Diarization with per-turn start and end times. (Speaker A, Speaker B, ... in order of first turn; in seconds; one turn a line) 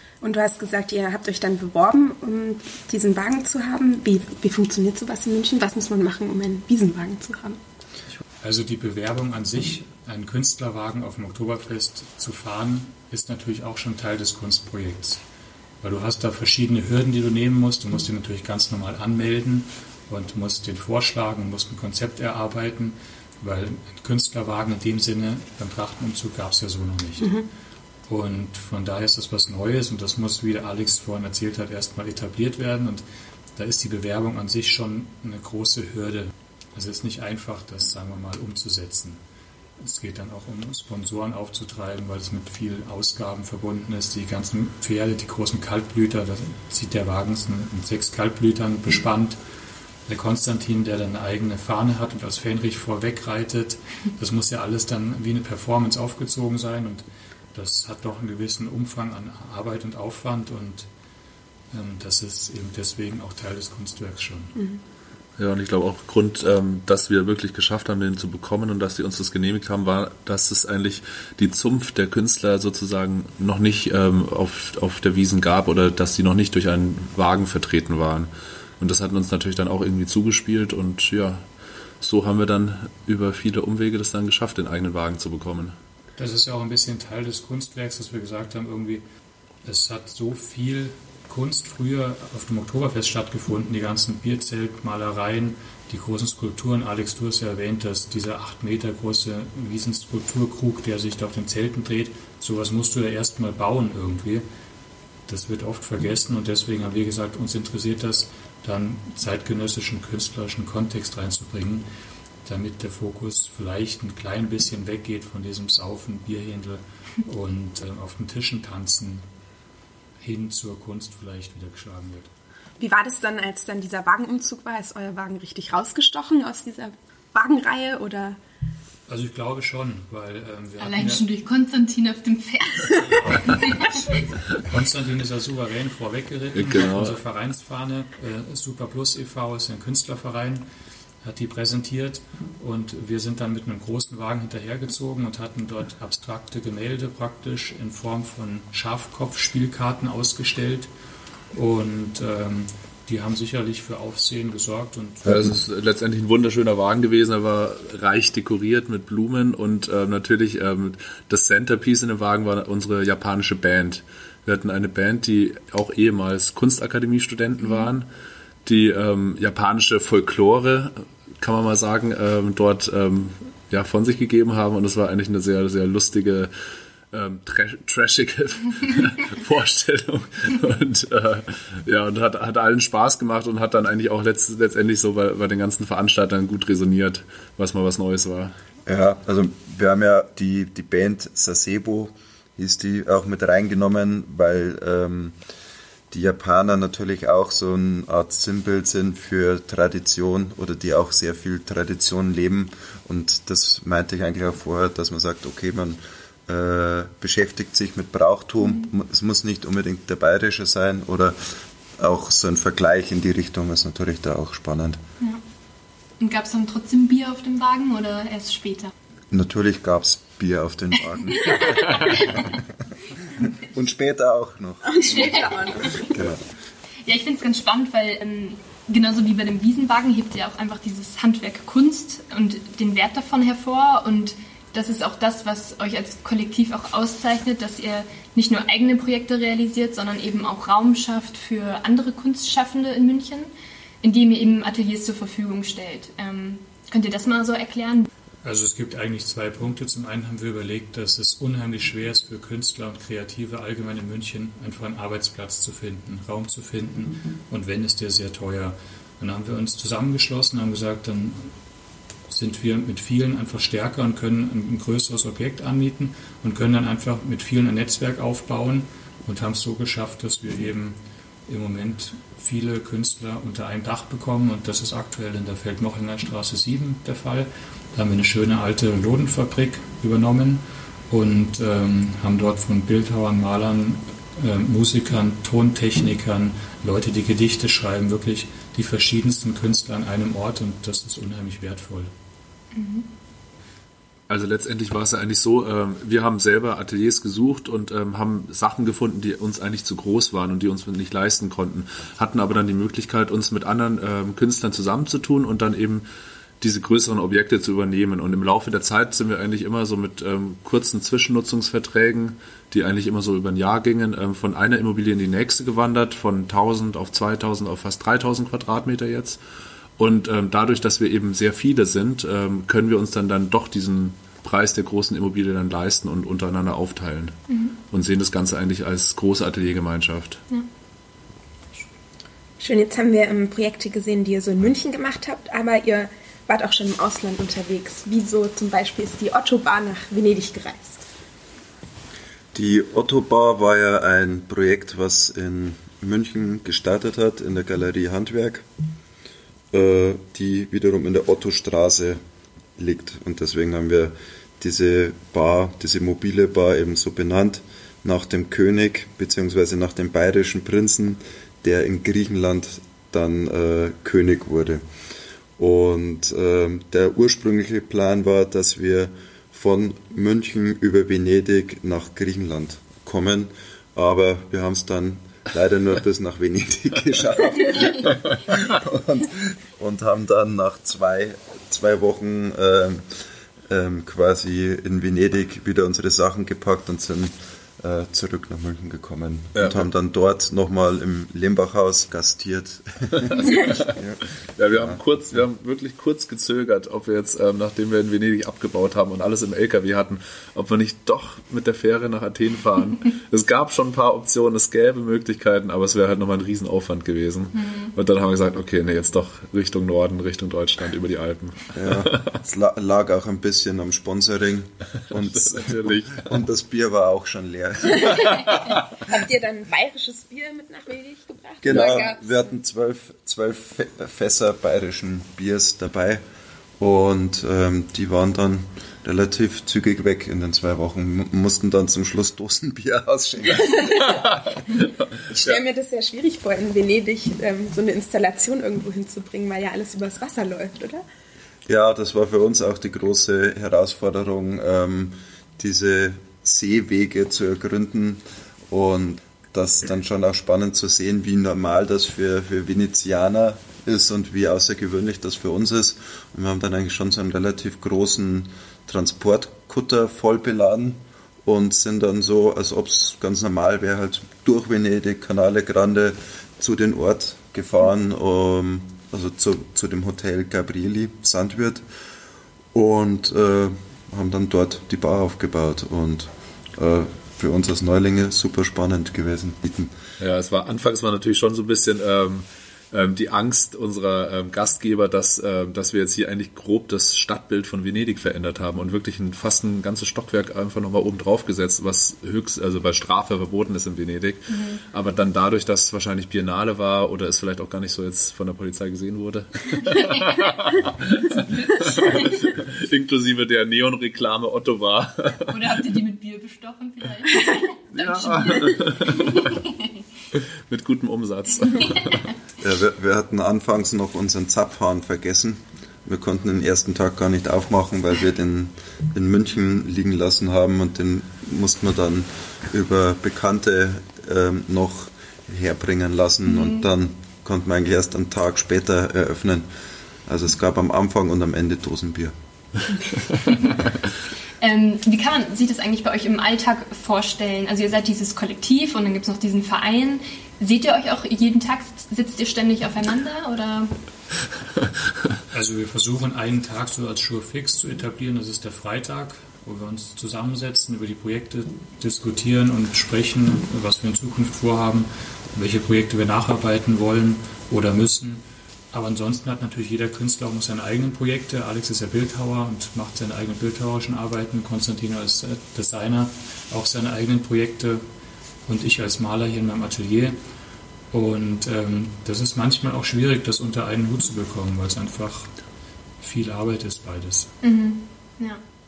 Speaker A: 0.2-7.6
Speaker B: 8.4-15.2
Speaker B: 15.8-27.3
Speaker B: 28.1-33.0
Speaker B: 33.6-39.2
Speaker B: 39.8-49.4
Speaker B: 50.1-60.9
Speaker B: 61.7-64.6
Speaker C: 65.4-81.5
Speaker C: 82.0-85.8
Speaker B: 86.2-89.0
Speaker B: 89.6-104.5
Speaker B: 105.3-111.9
Speaker B: 112.4-119.2
Speaker B: 120.2-122.3
Speaker A: 122.8-128.4
Speaker B: 129.1-131.2
Speaker D: 130.8-134.3
Speaker B: 134.5-140.7
Speaker C: 136.6-137.1
Speaker B: 141.2-150.9
Speaker B: 151.5-155.5
Speaker C: 155.2-168.1
Speaker D: 167.6-167.9
Speaker C: 168.7-176.5
Speaker C: 177.1-188.6
Speaker E: 188.9-195.4
Speaker E: 196.1-215.0
Speaker D: 208.7-208.9
Speaker D: 216.2-218.9
Speaker E: 219.3-222.6
Speaker D: 221.3-222.5
Speaker E: 223.6-226.4
Speaker A: 224.8-226.1
Speaker D: 225.2-225.4
Speaker D: 227.1-243.5
Speaker D: 244.0-248.1
Speaker B: 248.4-261.5
Speaker B: 262.3-292.1
Speaker D: 292.7-293.1
Speaker C: 294.3-306.1
Speaker C: 306.6-319.4
Speaker C: 320.0-330.4
Speaker D: 327.5-327.8
Speaker A: 332.6-341.1
Speaker E: 342.5-348.6
Speaker E: 349.7-352.2
Speaker E: 352.8-364.8
Speaker E: 365.6-383.0
Speaker E: 383.7-395.0
Speaker C: 389.6-389.8
Speaker C: 394.6-412.4
Speaker D: 407.5-408.0
Speaker E: 411.7-418.4
Speaker C: 415.1-416.4
Speaker A: 418.0-422.3
Speaker C: 418.3-418.5
Speaker E: 421.6-426.2
Speaker E: 426.8-434.0
Speaker A: 433.7-434.2
Speaker A: 435.3-441.0
Speaker E: 441.7-471.8
Speaker E: 472.7-479.9
Speaker C: 480.2-505.8
Speaker D: 494.5-494.8
Speaker D: 499.9-500.6
Speaker D: 501.2-502.3
Speaker D: 505.4-510.0
Speaker C: 507.9-509.6
Speaker C: 510.3-512.3
Speaker E: 512.6-529.7
Speaker D: 526.5-526.8
Speaker E: 530.3-532.3
Speaker D: 533.4-533.9
Speaker D: 534.6-543.9
Speaker B: 545.5-568.0
Speaker B: 568.7-570.4
Speaker B: 571.1-575.5
Speaker B: 576.2-577.5
Speaker D: 577.6-578.6